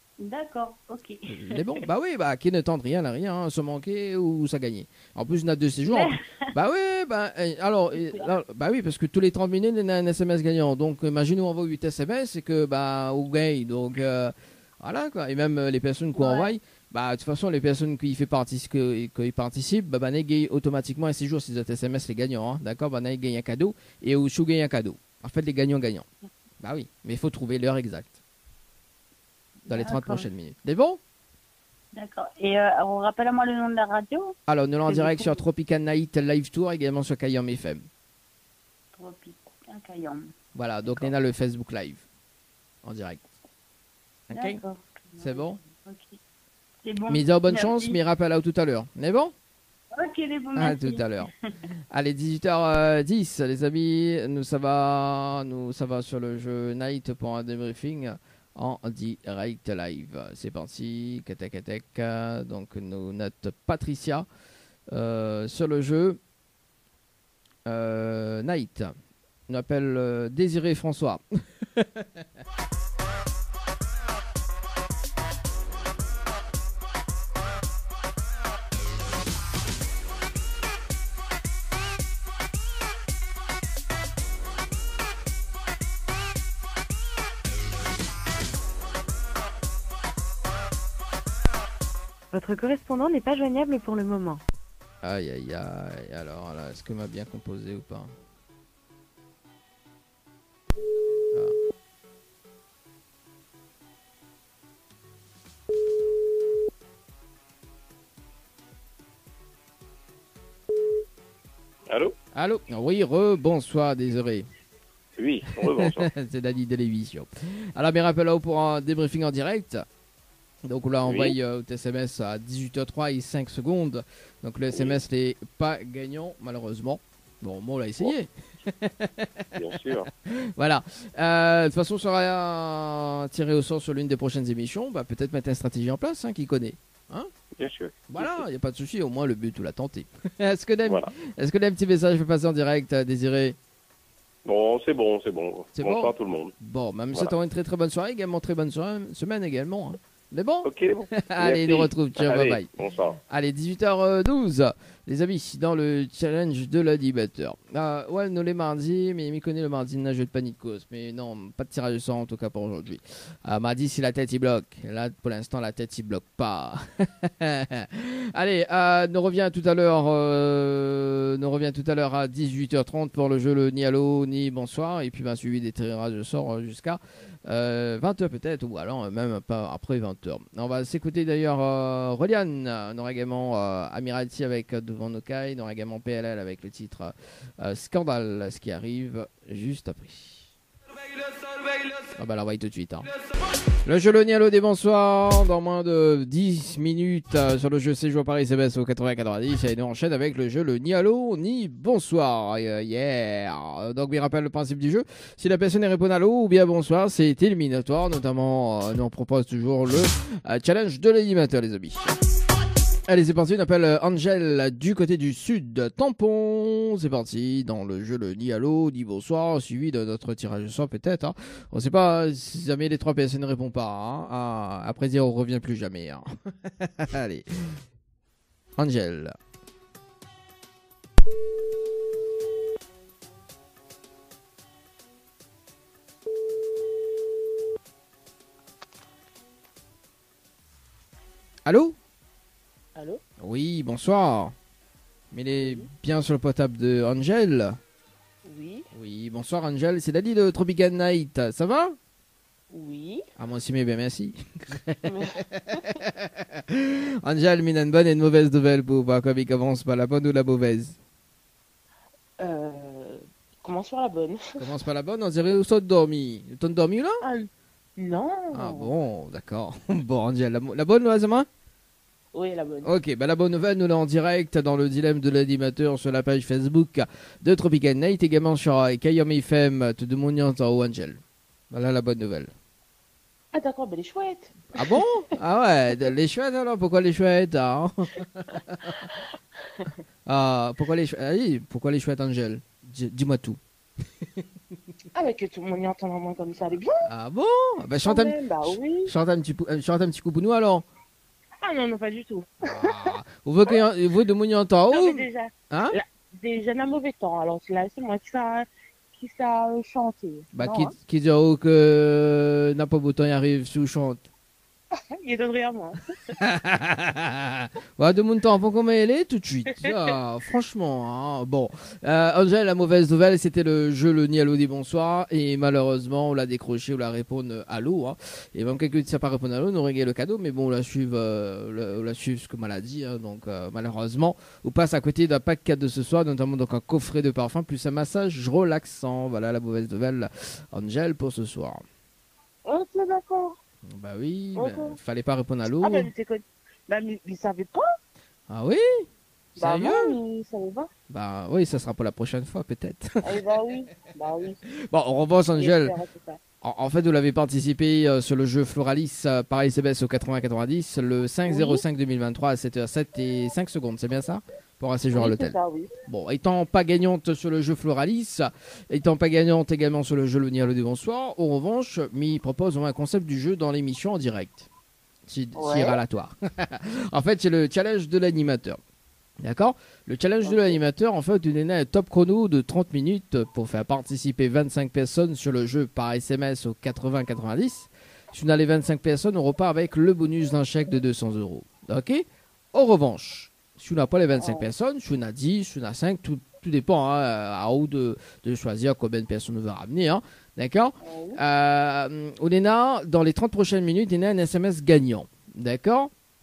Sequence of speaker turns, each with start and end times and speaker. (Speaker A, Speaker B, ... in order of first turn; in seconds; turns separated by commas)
Speaker A: 0.2-1.8, Speaker B: 1.3-26.1, Speaker A: 5.9-6.2, Speaker A: 7.9-8.3, Speaker A: 16.1-16.6, Speaker B: 26.6-28.1, Speaker A: 29.7-30.3, Speaker B: 29.7-31.0, Speaker A: 31.9-34.3, Speaker B: 34.5-37.9, Speaker A: 34.9-35.4, Speaker A: 38.9-41.1, Speaker B: 40.5-42.0, Speaker B: 42.8-43.2, Speaker B: 44.3-44.6, Speaker A: 44.3-46.2, Speaker B: 45.2-45.6, Speaker A: 46.8-48.0, Speaker B: 47.1-49.3, Speaker A: 49.9-51.4, Speaker B: 50.5-51.3, Speaker B: 51.9-64.3, Speaker B: 64.9-66.2, Speaker B: 67.7-68.9, Speaker B: 69.5-71.2, Speaker B: 71.8-72.0, Speaker C: 92.3-94.4, Speaker B: 95.0-98.1, Speaker D: 111.9-112.1, Speaker B: 112.3-114.5, Speaker D: 115.2-116.1, Speaker B: 115.7-119.8, Speaker B: 120.6-129.5, Speaker D: 121.0-121.3, Speaker D: 129.5-130.1, Speaker B: 130.2-137.3, Speaker D: 137.6-138.1, Speaker B: 138.1-143.6, Speaker D: 140.8-141.1, Speaker D: 144.4-146.5, Speaker B: 145.7-152.7, Speaker D: 150.6-153.2, Speaker B: 153.3-190.5, Speaker B: 192.1-193.1, Speaker B: 193.8-212.1, Speaker B: 213.1-227.7, Speaker B: 228.8-229.3, Speaker B: 241.7-241.9, Speaker E: 242.9-243.2, Speaker B: 243.4-244.5, Speaker B: 245.3-247.8, Speaker E: 245.6-245.9, Speaker E: 248.4-248.8, Speaker B: 248.9-251.9, Speaker E: 252.7-253.2, Speaker B: 253.4-261.0, Speaker E: 255.1-255.4, Speaker E: 262.4-264.6, Speaker B: 264.6-267.2, Speaker E: 267.2-268.9, Speaker B: 268.5-271.5, Speaker E: 272.3-272.9, Speaker B: 272.8-282.5, Speaker E: 283.5-284.6, Speaker B: 284.7-289.1, Speaker B: 290.2-293.6, Speaker E: 295.1-297.0, Speaker B: 297.0-300.9, Speaker E: 298.0-299.1, Speaker E: 301.6-303.1, Speaker B: 302.6-305.9, Speaker E: 304.9-310.9, Speaker B: 310.5-314.3, Speaker E: 315.0-316.0, Speaker B: 316.4-341.8, Speaker E: 342.6-343.6, Speaker B: 343.9-346.1, Speaker E: 344.6-344.9, Speaker E: 345.6-347.8, Speaker B: 348.5-350.1, Speaker E: 349.6-350.9, Speaker B: 351.1-353.4, Speaker E: 353.2-354.6, Speaker B: 354.9-355.9, Speaker E: 355.6-356.4, Speaker B: 356.6-374.7, Speaker E: 361.4-361.8, Speaker E: 365.1-365.9, Speaker B: 375.3-378.8, Speaker E: 375.5-376.0, Speaker B: 379.4-406.1, Speaker E: 380.4-380.8, Speaker E: 394.4-394.7, Speaker E: 401.0-401.4